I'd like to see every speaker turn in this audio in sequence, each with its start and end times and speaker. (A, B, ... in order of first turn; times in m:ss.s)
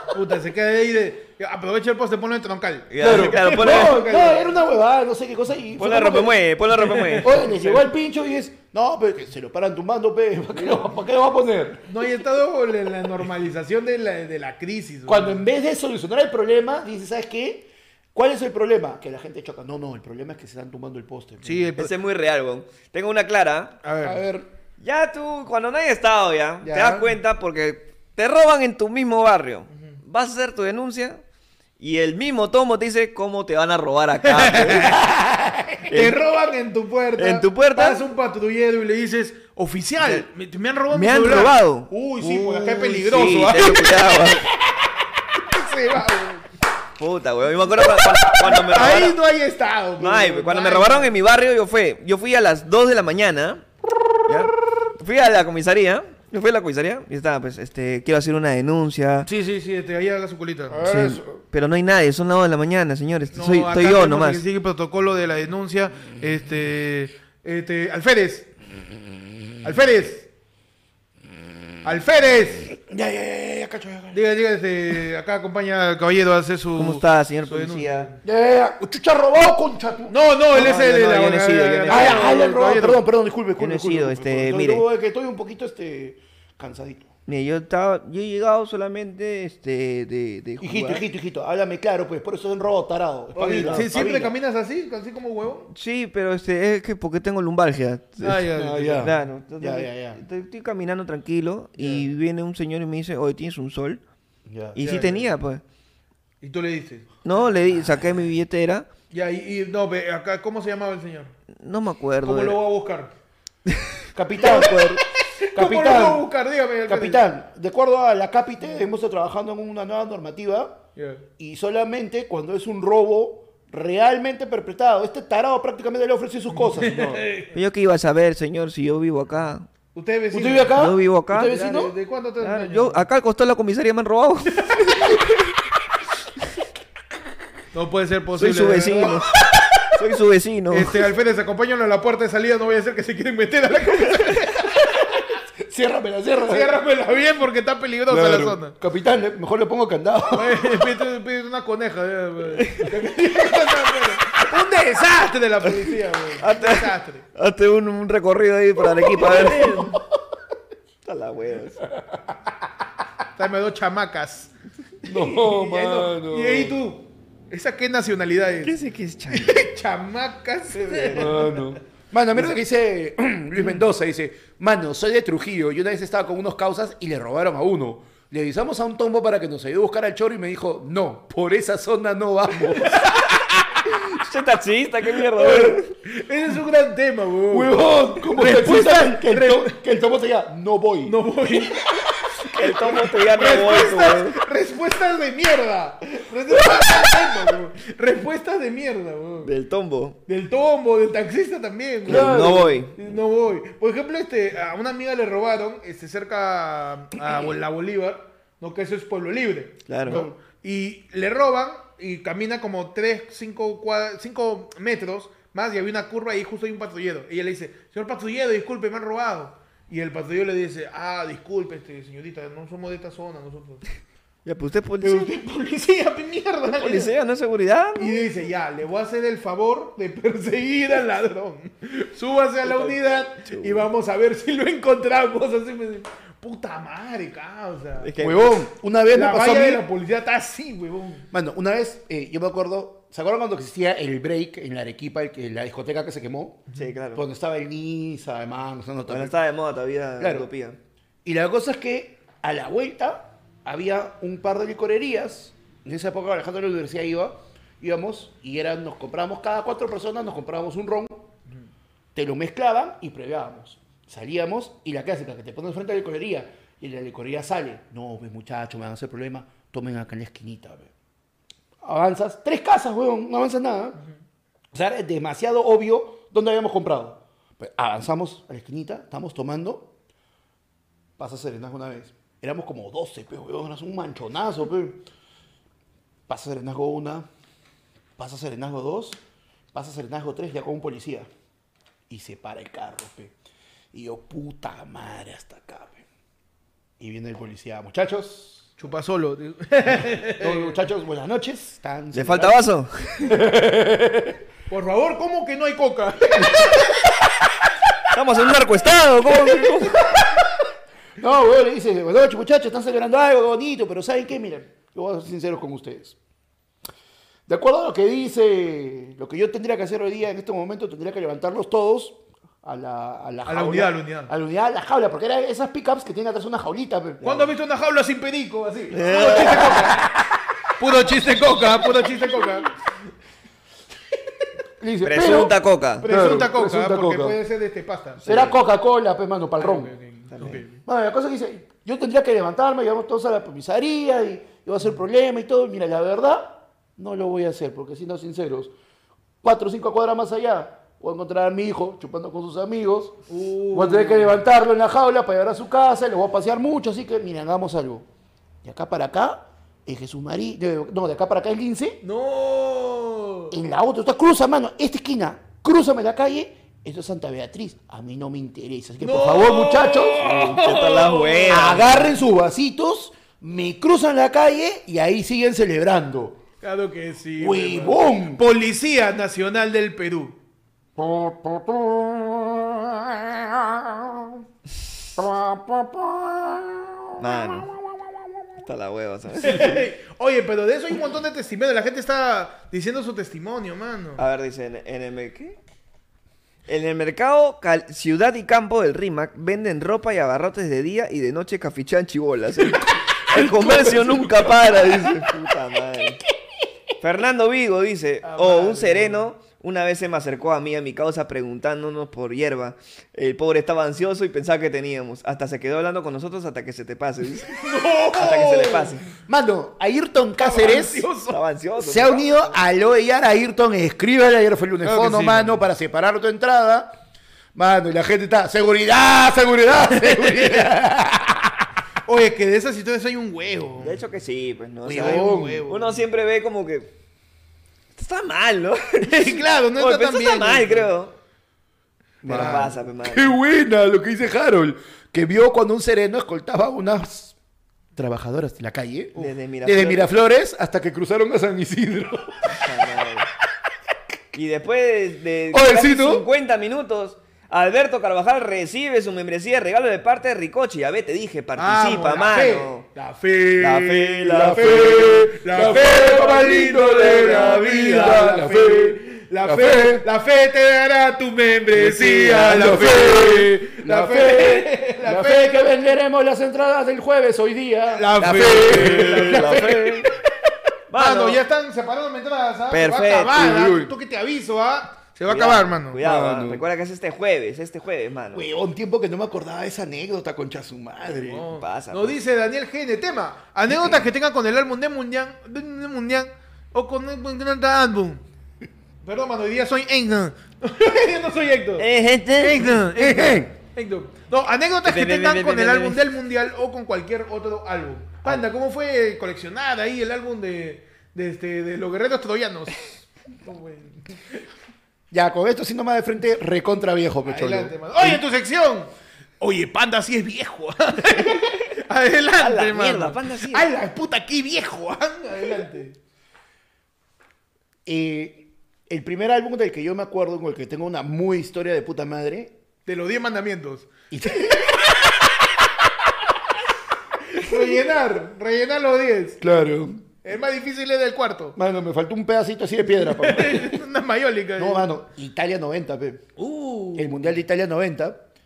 0:00.1-0:04.6 A
0:02.9-0:04.0 B
0:03.0-0:06.3 C
0:05.8-0:07.3 B
0:06.7-0:07.8 A
0:07.2-0:12.0 C
0:11.9-0:15.4 A
0:15.0-0:21.7 C
0:21.4-0:21.9 A
0:21.8-0:23.8 B
0:23.8-0:24.2 A
0:24.0-0:24.5 C
0:24.8-0:31.2 B
0:26.6-0:27.1 A
0:31.8-0:34.9 B
0:34.2-0:35.0 A
0:35.0-0:35.8 C
0:35.9-0:36.2 B
0:35.9-0:44.2 A
0:37.2-0:38.0 B
0:40.9-0:44.5 B
0:45.4-0:46.4 A
0:47.0-0:49.2 B
0:48.4-0:51.1 A
0:50.0-0:53.6 B
0:54.3-0:59.3 B
0:59.3-1:00.8 A
1:00.7-1:01.4 C
1:00.8-1:04.4 B
1:03.3-1:08.5 A
1:09.6-1:10.3 A
1:11.8-1:12.7 A
1:12.8-1:14.2 C
1:14.1-1:18.2 A
1:16.8-1:18.1 B
1:18.2-1:20.7 C
1:20.1-1:23.0 A
1:20.5-1:22.3 B
1:21.9-1:27.1 C
1:23.6-1:24.8 B
1:27.3-1:31.0 B
1:30.6-1:34.3 C
1:33.4-1:33.9 B
1:33.4-1:35.7 A
1:35.7-1:44.0 B
1:38.2-1:39.1 A
1:38.5-1:40.2 C
1:41.8-1:42.0 A
1:44.4-1:44.8 C
1:44.7-1:45.6 B
1:44.8-1:45.3 A
1:46.4-1:47.1 A
1:47.2-1:48.9 B
1:49.1-1:51.3 A
1:51.5-1:52.6 B
1:52.2-1:53.1 A
1:54.1-1:55.0 C
1:54.4-1:55.0 B
1:54.4-1:54.7 A
1:55.4-1:57.2 A
1:55.5-1:56.3 C
1:56.9-2:00.8 C
2:01.0-2:01.2 A
2:01.4-2:07.2 C
2:06.5-2:07.5 A
2:07.5-2:09.7 B
2:09.9-2:10.8 A
2:10.3-2:11.9 C
2:10.8-2:11.7 B
2:11.4-2:13.0 A
2:12.4-2:15.2 B
2:17.7-2:19.3 A
2:18.4-2:19.3 B
2:19.9-2:20.9 B
2:20.7-2:25.1 A
2:25.6-2:26.7 C
2:26.4-2:28.8 A
2:28.1-2:30.6 C
2:30.3-2:37.2 A
2:32.6-2:32.9 B
2:36.4-2:39.9 B
2:39.1-2:40.0 A
2:41.0-2:41.8 B
2:43.4-2:44.5 A
2:45.0-2:46.8 C
2:45.1-2:48.7 A
2:48.6-2:49.6 B
2:49.3-2:51.7 A
2:50.7-2:51.3 B
2:51.1-3:03.1 C
3:03.9-3:05.9 B
3:05.6-3:09.7 A
3:07.5-3:11.2 C
3:11.0-3:11.8 A
3:12.5-3:14.4 B
3:12.7-3:19.5 A
3:19.4-3:20.2 B
3:20.3-3:43.8 A
3:22.1-3:22.8 C
3:22.1-3:23.0 B
3:29.9-3:30.2 B
3:30.1-3:30.3 C
3:44.4-3:45.3 B
3:45.0-3:47.1 A
3:46.8-3:48.1 B
3:48.0-3:58.1 A
3:52.6-3:53.9 B
3:58.0-3:58.6 B
3:58.2-3:59.8 C
3:59.1-4:01.2 A
4:01.3-4:06.6 C
4:06.7-4:07.2 B
4:07.1-4:09.4 C
4:09.1-4:10.8 B
4:10.2-4:10.5 C
4:11.2-4:21.3 C
4:22.1-4:30.9 C
4:31.8-4:34.0 C
4:34.7-4:39.9 C
4:41.2-4:45.0 C
4:46.3-4:47.3 C
4:48.2-4:49.2 C
4:49.7-4:51.3 C
4:52.1-4:53.3 C
4:53.9-4:56.0 C
4:57.0-4:58.7 C
4:58.8-5:00.8 A
5:00.4-5:02.6 C
5:02.1-5:03.3 B
5:03.2-5:04.4 C
5:04.7-5:06.7 A
5:08.1-5:10.1 B
5:11.2-5:16.2 C
5:17.5-5:27.3 C
5:23.4-5:24.3 A
5:27.2-5:30.0 A
5:28.9-5:29.9 B
5:29.7-5:30.2 C
5:30.8-5:32.7 A
5:34.8-5:37.4 C
5:35.0-5:36.1 B
5:36.0-5:38.3 A
5:38.2-5:38.5 B
5:38.2-5:39.9 C
5:39.6-5:40.8 A
5:40.3-5:40.6 B
5:40.8-5:48.7 C
5:49.4-5:53.2 C
5:53.3-5:54.4 A
5:53.7-5:58.0 C
5:58.6-6:02.0 C
6:02.0-6:03.5 A
6:03.5-6:10.5 C
6:09.0-6:11.7 A
6:10.2-6:12.1 B
6:11.5-6:16.4 C
6:16.6-6:20.4 A
6:17.4-6:18.4 C
6:21.0-6:24.4 C
6:25.2-6:27.0 C
6:27.2-6:27.7 B
6:28.6-6:29.8 B
6:29.4-6:34.2 A
6:34.2-6:35.6 B
6:36.7-6:46.2 B
6:43.3-6:45.2 C
6:47.0-6:57.6 B
6:48.2-6:49.3 A
6:57.5-6:59.0 A
6:58.1-6:59.0 B
6:59.3-7:01.1 C
7:00.4-7:01.4 A
7:01.3-7:02.5 B
7:01.8-7:06.9 C
7:04.8-7:05.6 A
7:07.5-7:11.7 C
7:09.9-7:10.7 A
7:12.0-7:14.0 A
7:13.8-7:16.9 B
7:14.8-7:15.7 C
7:14.9-7:16.0 A
7:18.0-7:21.1 B
7:19.0-7:20.9 A
7:22.2-7:27.4 C
7:22.2-7:22.7 A
7:22.3-7:23.3 B
7:28.0-7:32.5 C
7:29.2-7:30.1 B
7:32.6-7:33.3 B
7:34.3-7:42.8 B
7:35.5-7:36.2 C
7:41.6-7:55.7 A
7:43.6-7:45.2 B
7:44.3-7:50.1 C
7:47.2-7:47.9 B
7:51.7-7:59.7 C
7:57.9-8:00.1 A
7:58.6-8:00.1 B
8:00.9-8:01.4 B
8:01.0-8:06.0 A
8:02.7-8:03.5 B
8:03.3-8:03.9 C
8:05.3-8:08.4 B
8:06.0-8:06.6 C
8:08.3-8:11.4 C
8:11.1-8:12.2 B
8:11.2-8:18.2 A
8:19.0-8:34.3 A
8:21.8-8:22.8 B
8:22.9-8:23.5 C
8:24.8-8:26.0 B
8:35.1-8:38.2 C
8:37.2-8:46.0 A
8:42.4-8:43.6 B
8:47.8-8:52.5 C
8:52.8-8:54.0 A
8:54.1-8:54.6 C
8:57.3-8:59.4 A
8:59.4-9:00.0 C
9:00.2-9:01.6 A
9:01.6-9:03.8 C
9:03.0-9:04.9 A
9:04.6-9:06.3 C
9:06.4-9:07.2 A
9:06.9-9:08.2 C